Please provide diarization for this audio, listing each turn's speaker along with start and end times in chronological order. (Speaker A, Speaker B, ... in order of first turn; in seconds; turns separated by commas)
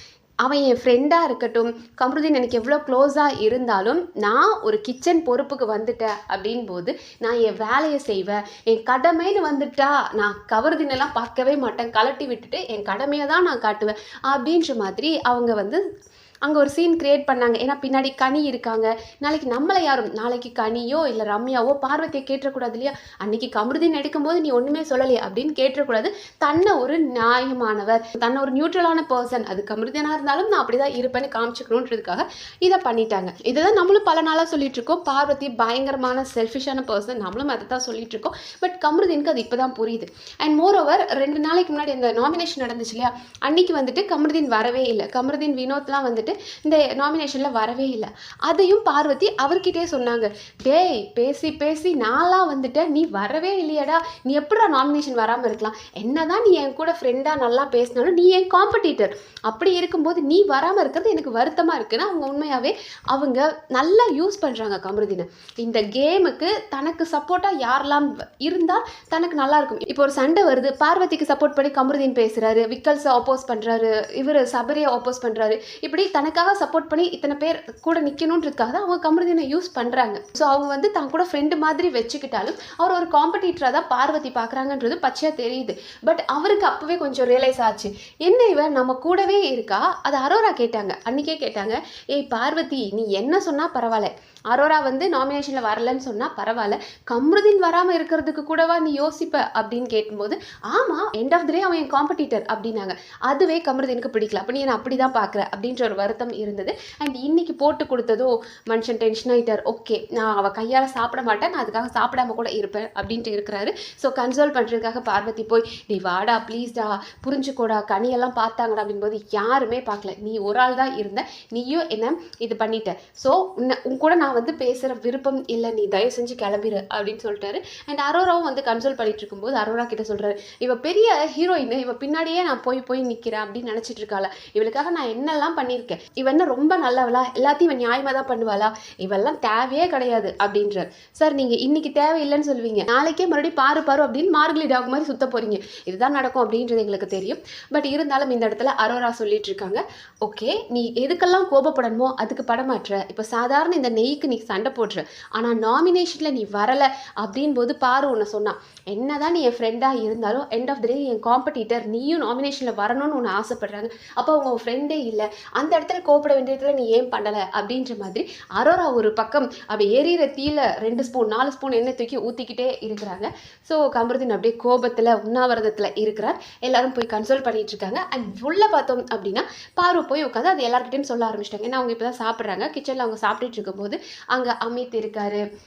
Speaker A: 0.4-15.8, Speaker A: 16.4-185.4